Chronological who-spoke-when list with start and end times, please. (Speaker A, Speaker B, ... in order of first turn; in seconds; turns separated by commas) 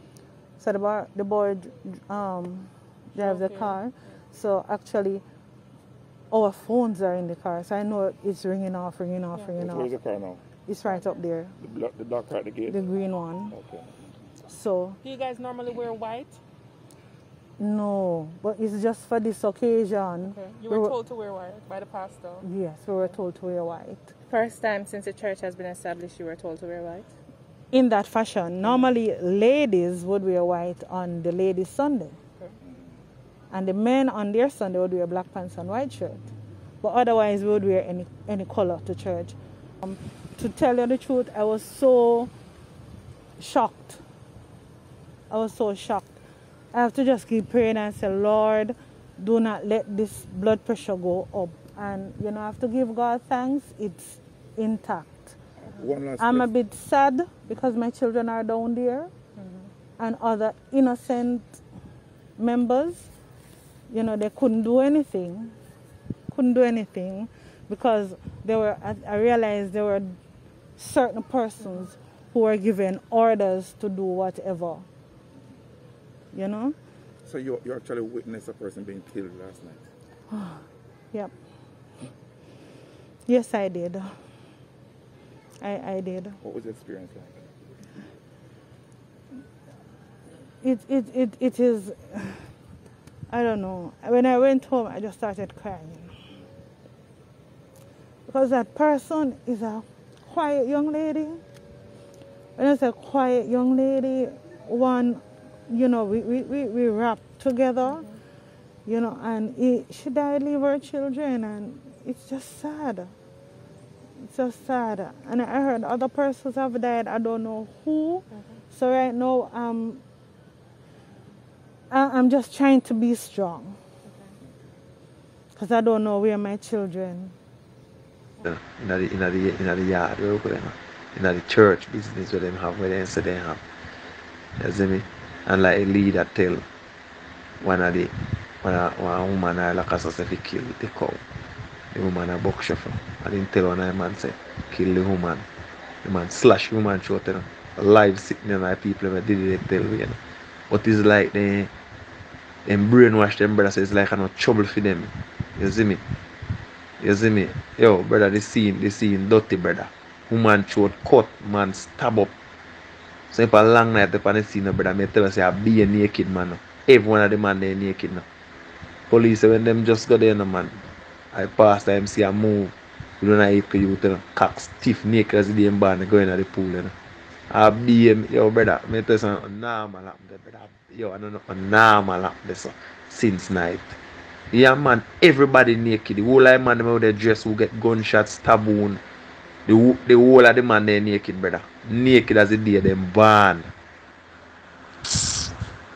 Speaker A: 0.6-5.2, Speaker B: 3.2-3.8, Speaker A: 6.3-9.9, Speaker C: 9.6-10.4, Speaker A: 10.7-11.6, Speaker C: 11.6-12.8, Speaker A: 12.7-13.5, Speaker C: 13.5-14.0, Speaker A: 14.4-15.0, Speaker B: 15.0-16.4, Speaker A: 17.6-20.9, Speaker B: 20.2-22.4, Speaker A: 22.4-24.1, Speaker D: 24.3-27.1, Speaker A: 27.7-32.2, Speaker A: 33.5-36.2, Speaker A: 36.8-42.3, Speaker A: 43.4-44.0, Speaker A: 45.3-46.1, Speaker A: 46.7-55.4, Speaker C: 55.6-56.5, Speaker A: 56.2-59.1, Speaker A: 60.0-61.6, Speaker A: 62.4-63.1, Speaker A: 63.9-65.5, Speaker A: 66.3-70.2, Speaker A: 70.8-74.9, Speaker A: 76.3-76.8, Speaker C: 77.2-79.9, Speaker A: 80.3-81.3, Speaker A: 83.2-84.1, Speaker A: 85.6-86.4, Speaker C: 86.4-87.5, Speaker A: 90.6-92.5, Speaker A: 93.3-96.1, Speaker A: 98.3-101.4, Speaker A: 102.6-108.1, Speaker A: 108.8-113.1, Speaker A: 114.2-120.0, Speaker B: 118.3-118.6, Speaker A: 121.9-123.8, Speaker A: 125.5-127.3, Speaker E: 128.4-133.6, Speaker E: 134.6-136.6, Speaker E: 137.6-141.2, Speaker E: 141.9-145.4, Speaker E: 146.0-150.2, Speaker E: 150.7-151.7, Speaker E: 152.6-156.0, Speaker E: 157.0-162.3, Speaker E: 163.3-168.2, Speaker E: 169.1-176.9, Speaker E: 177.5-184.0, Speaker E: 184.5-189.0, Speaker E: 189.7-193.7, Speaker E: 195.1-195.5